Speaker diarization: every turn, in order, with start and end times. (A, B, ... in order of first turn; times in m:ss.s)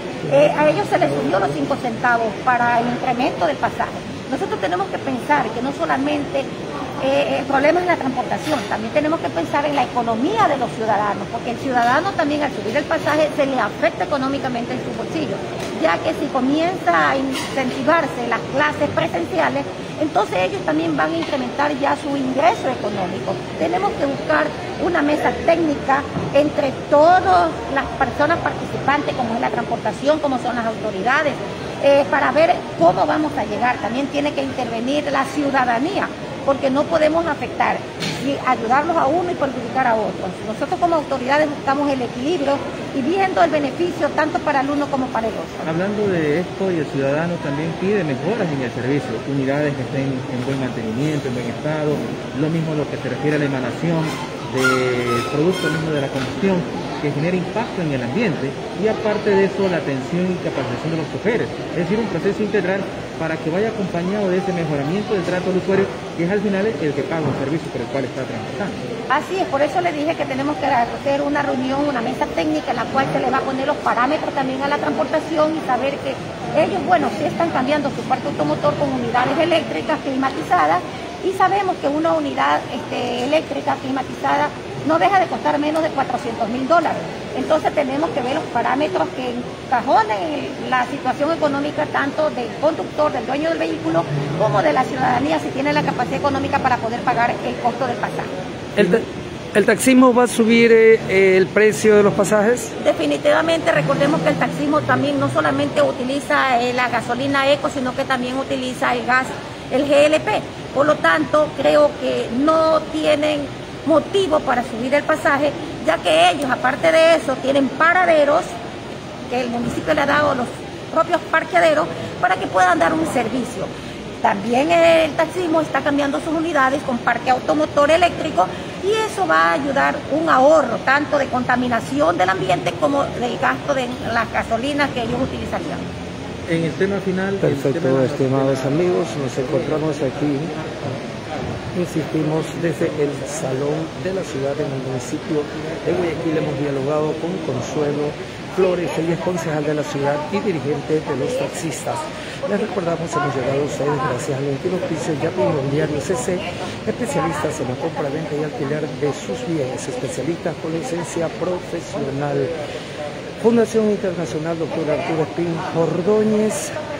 0:00.3-0:06.5 A
0:07.0-0:45.7 A
0:45.6-1:08.8 B
1:09.1-1:38.3 A
1:38.8-1:42.7 C
1:42.8-1:58.5 A
1:59.3-2:03.7 A
2:04.2-2:15.8 A
2:16.5-2:18.7 B
2:17.4-2:20.5 C
2:21.7-2:42.5 C
2:43.4-2:46.8 C